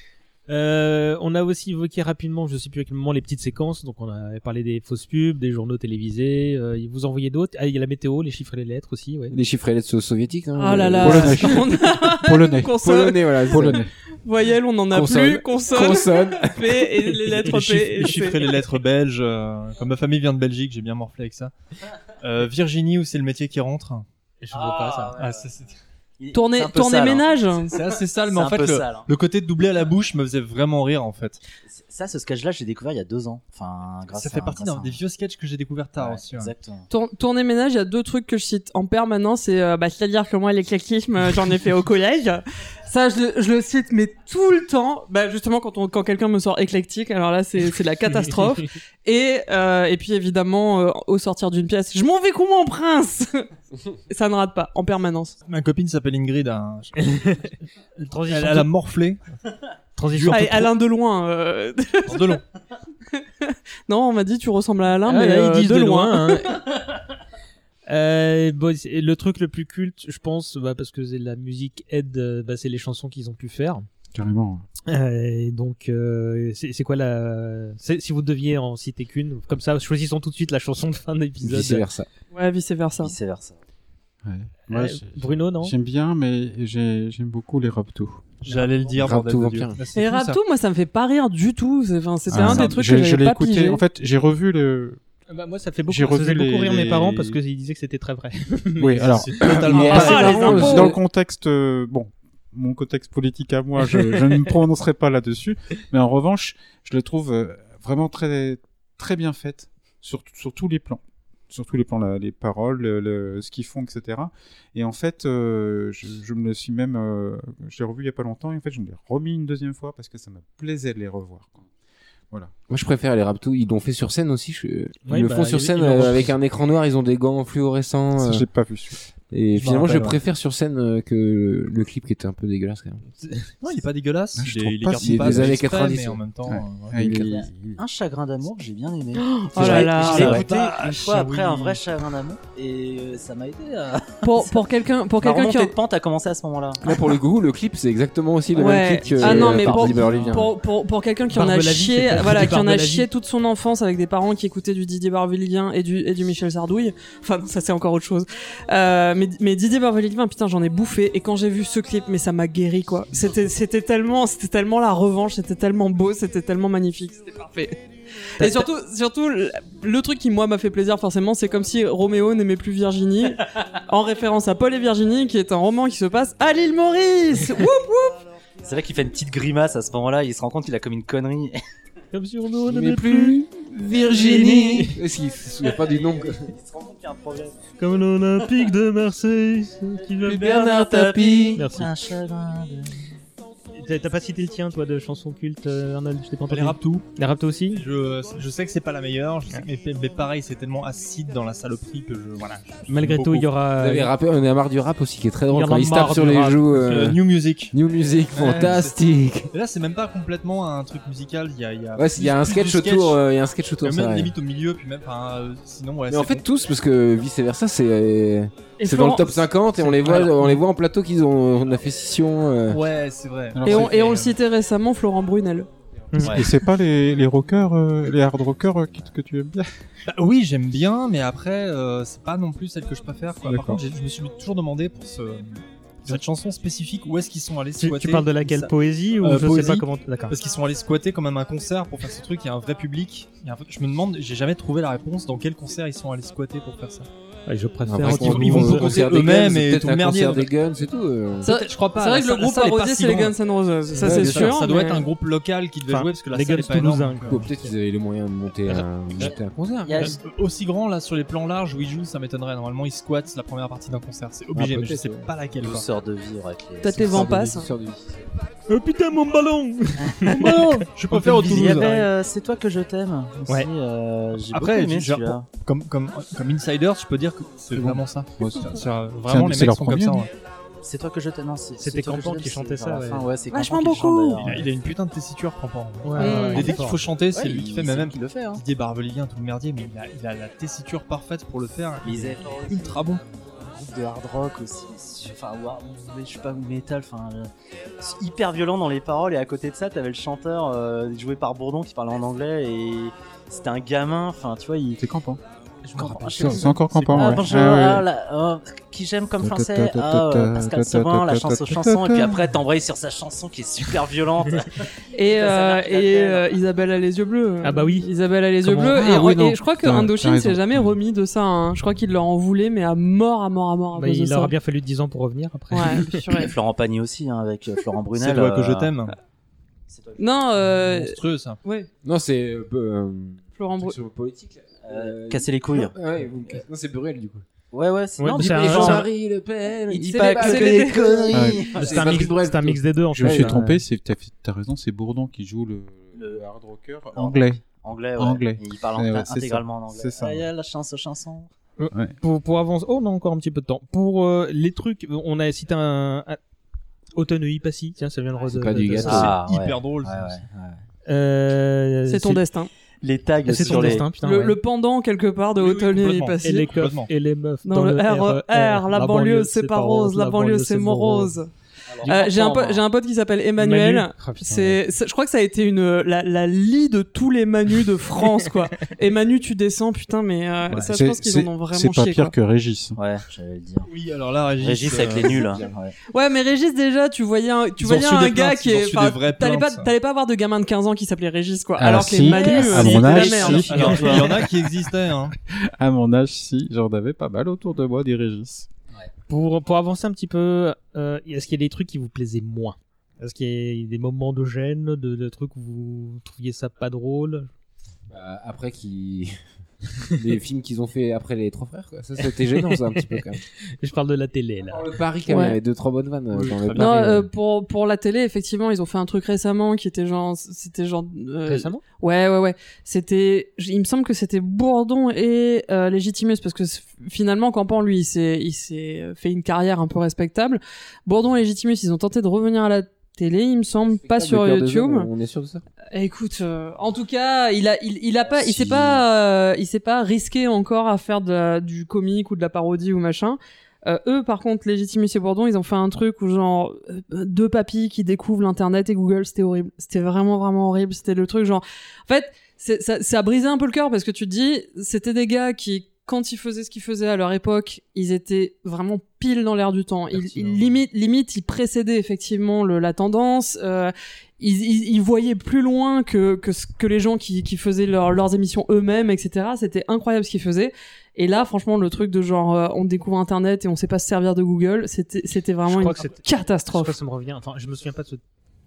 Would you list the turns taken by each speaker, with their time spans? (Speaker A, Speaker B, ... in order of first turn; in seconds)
Speaker A: 0.5-9.3, 24.4-25.2, 58.0-58.7, 60.0-60.7, 65.1-66.6, 67.9-73.9, 74.9-81.9, 84.7-85.8, 95.3-99.2, 99.8-100.9, 125.1-126.3, 133.2-133.5, 151.3-153.1, 168.4-168.7, 182.1-183.4, 184.1-185.0, 187.8-190.6, 191.6-191.9, 193.8-197.8, 202.7-204.1, 205.5-206.9, 226.1-226.4, 237.8-240.4, 247.5-249.1, 253.9-254.5, 255.9-257.7, 258.8-260.1, 268.7-270.7, 281.8-283.3, 286.0-287.0, 305.9-307.2, 317.6-318.1, 324.0-326.2, 338.2-339.1, 341.8-343.8, 351.8-356.4, 357.2-359.3, 361.1-362.4, 363.4-364.6, 366.4-371.4, 372.0-372.3, 373.6-374.8, 392.3-394.2, 399.3-407.5, 412.2-414.9, 416.4-417.1, 421.5-421.8, 460.2-460.6, 475.7-478.2
Speaker B: 9.3-11.6, 12.8-13.9, 14.9-17.1, 81.4-82.1, 89.0-89.8, 99.6-101.0, 122.7-128.4, 129.3-133.0, 135.0-136.1, 136.9-137.3, 146.8-150.6, 182.6-186.5, 190.3-191.7, 203.8-207.2, 207.7-209.5, 212.0-214.3, 216.1-222.8, 247.9-251.5, 257.3-260.0, 264.5-265.3, 267.0-268.2, 332.0-337.4, 338.4-343.6, 358.5-359.4, 385.3-385.7, 408.1-409.4, 410.1-413.4, 414.7-417.3, 433.9-435.6, 438.4-439.0
Speaker C: 10.6-18.5, 26.3-27.8, 36.9-53.5, 54.1-55.4, 60.3-62.4, 63.4-66.6, 82.3-83.2, 89.9-93.8, 99.7-100.8, 139.2-140.5, 144.2-145.7, 148.5-167.8, 168.4-178.2, 218.8-219.6, 223.6-225.7, 251.4-255.1, 266.8-267.7, 283.5-284.4, 286.2-286.7, 315.1-324.5, 325.7-326.5, 330.2-331.9, 333.6-334.0, 340.0-341.2, 362.1-362.7, 364.0-366.7, 367.6-371.5, 372.0-382.3, 386.1-394.4, 415.3-415.6, 416.8-435.1, 435.9-477.0
Speaker D: 11.0-12.8, 13.4-13.9, 74.1-74.6, 84.2-88.2, 92.3-95.0, 95.9-97.4, 98.8-121.6, 128.2-129.0, 134.4-137.8, 223.6-223.9, 226.2-229.7, 233.4-233.8, 277.7-280.3, 305.0-305.4, 306.3-308.1, 309.4-312.4, 318.6-321.0, 341.3-341.8, 343.1-350.5, 380.7-383.0, 391.8-393.9, 395.7-398.7
Speaker E: 17.5-21.5, 22.2-24.1, 25.2-25.7, 27.7-31.4, 34.1-36.5, 55.5-57.5, 58.3-59.2, 60.1-60.5, 62.1-62.4, 88.4-90.4, 92.4-92.8, 99.2-100.9, 129.5-130.2, 133.6-137.0, 139.6-141.8, 149.8-150.3, 196.5-197.1, 197.7-203.5, 206.7-207.8, 208.3-209.0, 209.5-213.2, 213.8-216.4, 220.1-220.5, 222.7-224.4, 230.1-247.1, 248.0-250.5, 251.4-253.4, 253.9-257.4, 260.0-265.9, 270.3-272.1, 274.4-280.3, 284.4-293.2, 328.1-329.2, 330.9-331.6, 359.0-360.4, 363.6-364.0, 365.6-367.1, 383.9-385.6, 387.8-389.9, 392.9-395.4, 416.5-416.8
Speaker F: 24.5-25.5, 26.2-29.1, 31.6-35.0, 36.0-36.9, 83.0-83.6, 137.1-144.6, 145.2-146.8, 149.0-150.4, 178.6-181.6, 184.1-184.5, 185.7-187.7, 190.2-193.0, 226.2-226.5, 259.2-260.2, 265.6-267.2, 270.1-270.6, 271.1-275.5, 280.8-284.7, 287.3-288.6, 292.0-305.0, 305.9-316.6, 326.4-328.9, 329.9-330.6, 334.9-336.6, 337.7-339.1, 339.9-342.3, 346.2-346.4, 347.1-351.5, 359.1-360.8, 363.0-364.1, 371.9-372.8, 383.0-383.9, 384.6-385.9, 393.7-394.1